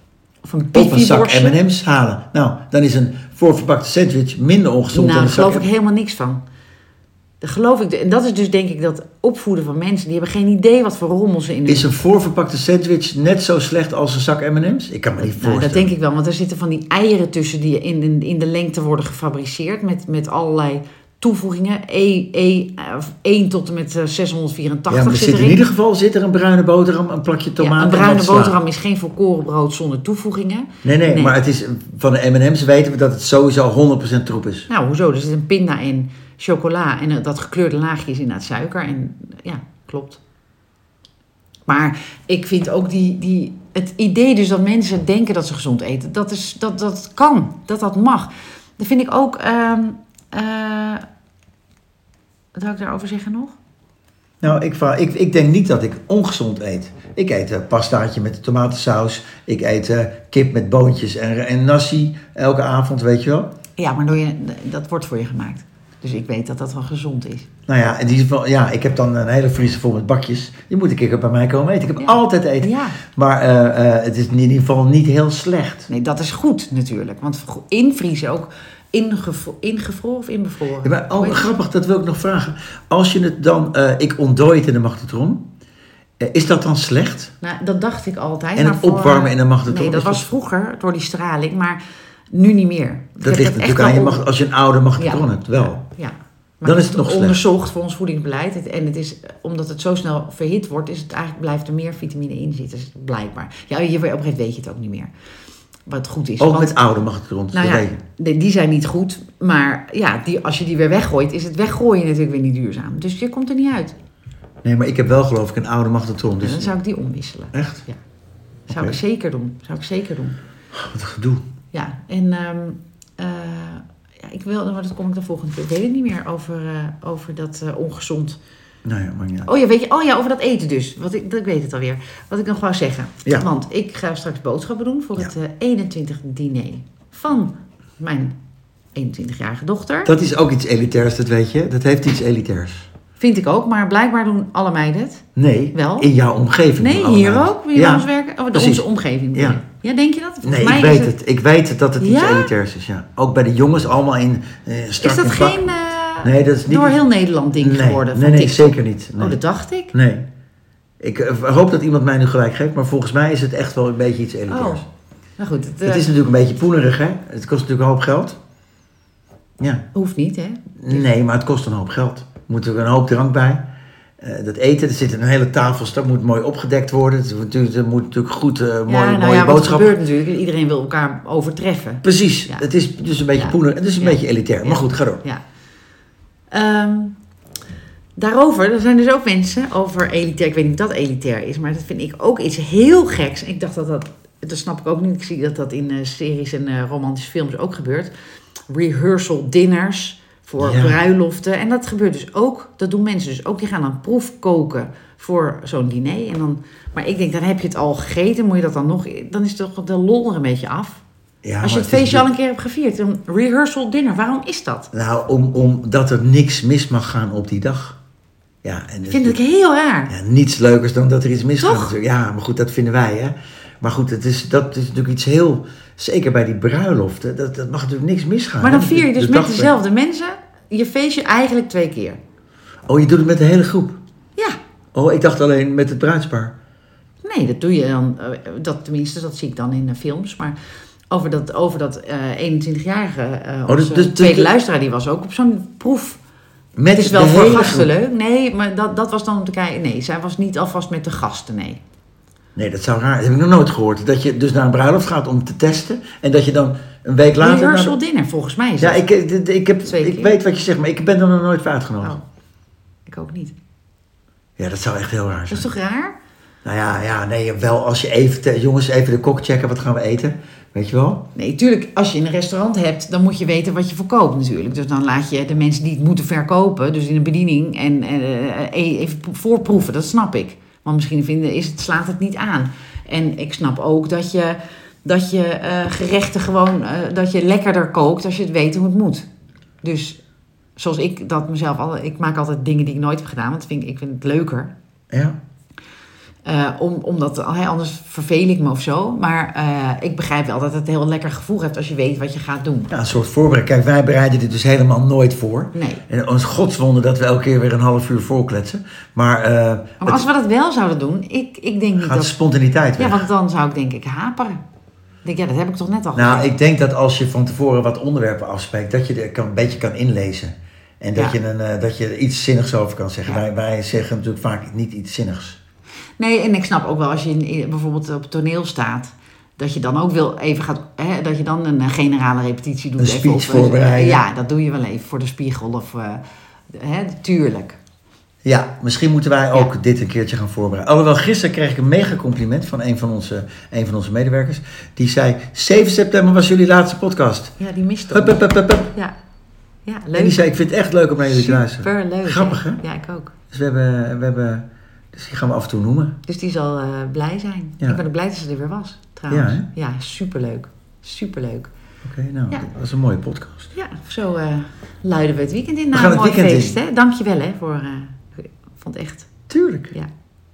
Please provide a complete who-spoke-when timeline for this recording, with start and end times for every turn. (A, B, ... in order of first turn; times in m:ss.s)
0:00.4-0:01.6 A
0:00.7-0:05.6 B
0:04.9-0:06.4 A
0:07.4-0:11.9 A
0:11.6-0:15.9 B
0:15.2-0:25.6 A
0:24.9-0:28.6 B
0:27.6-0:31.4 A
0:30.8-0:34.7 B
0:34.7-0:40.2 A
0:41.7-0:51.0 A
0:52.5-0:53.6 A
0:54.4-1:03.5 B
1:03.8-1:07.5 A
1:07.7-1:15.9 B
1:12.0-1:13.0 A
1:15.9-1:21.4 A
1:20.8-1:25.4 B
1:26.2-1:27.3 B
1:27.4-1:31.8 A
1:28.6-1:30.3 B
1:32.3-1:34.2 A
1:33.2-1:35.8 B
1:35.0-1:45.1 A
1:36.6-1:37.4 B
1:45.9-1:46.8 A
1:46.4-1:48.0 B
1:47.5-1:54.0 A
1:54.6-1:56.7 B
1:56.4-1:58.0 A
1:57.5-1:57.8 B
1:58.7-2:00.4 A
1:58.7-1:59.0 B
2:00.7-2:01.4 B
2:01.7-2:08.4 A
2:08.8-2:09.5 B
2:09.4-2:18.3 A
2:18.9-2:20.1 A
2:20.0-2:22.9 B
2:23.2-2:26.1 A
2:25.4-2:29.6 B
2:26.8-2:31.1 A
2:30.4-2:35.6 B
2:32.0-2:32.5 A
2:35.0-2:39.9 A
2:36.2-2:37.0 B
2:37.6-2:39.4 B
2:39.9-2:40.2 B
2:41.0-2:44.8 B
2:44.5-2:44.8 A
2:45.4-2:46.1 A
2:45.8-2:48.4 B
2:49.6-2:49.8 B
2:49.9-2:51.0 A
2:50.8-2:53.6 B
2:54.2-3:00.0 B
2:58.9-3:02.7 A
3:02.0-3:05.2 B
3:03.4-3:05.4 A
3:06.5-3:07.2 A
3:08.2-3:18.1 A
3:18.7-3:31.0 A
3:20.6-3:21.0 B
3:31.4-3:32.3 B
3:31.6-3:34.9 A
3:34.9-3:38.0 B
3:38.6-3:39.4 B
3:39.1-3:40.1 A
3:40.1-3:49.7 B
3:41.6-3:41.9 A
3:48.6-3:52.2 A
3:52.9-3:54.0 B
3:54.9-3:56.5 B
3:57.2-4:00.6 A
4:01.1-4:06.2 A
4:03.7-4:04.5 B
4:06.8-4:07.9 B
4:07.0-4:11.8 A
4:12.6-4:17.9 B
4:17.4-4:19.0 A
4:18.8-4:22.2 B
4:19.8-4:20.4 A
4:23.0-4:23.5 A
4:24.6-4:25.7 B
4:25.5-4:26.2 A
4:26.6-4:31.3 B
4:31.3-4:49.3 A
4:49.8-4:50.2 A
4:50.8-4:54.7 A
4:55.1-4:55.4 B
4:56.4-5:02.9 A
5:02.9-5:10.2 B
5:05.7-5:06.0 A
5:10.0-5:12.4 A
5:12.0-5:13.2 B
5:13.0-5:14.6 A
5:15.2-5:16.5 A
5:16.1-5:25.6 B
5:26.2-5:37.8 A
5:33.0-5:34.2 B
5:38.4-5:47.6 B
5:47.6-5:49.1 A
5:48.1-5:48.9 B
5:49.8-5:50.4 A
5:50.2-5:52.8 B
5:51.2-5:53.3 A
5:53.5-5:56.2 B
5:56.3-6:01.7 A
5:59.3-5:59.7 B
6:02.0-6:03.7 B
6:03.7-6:09.3 A
6:05.9-6:06.8 B
6:09.5-6:09.9 B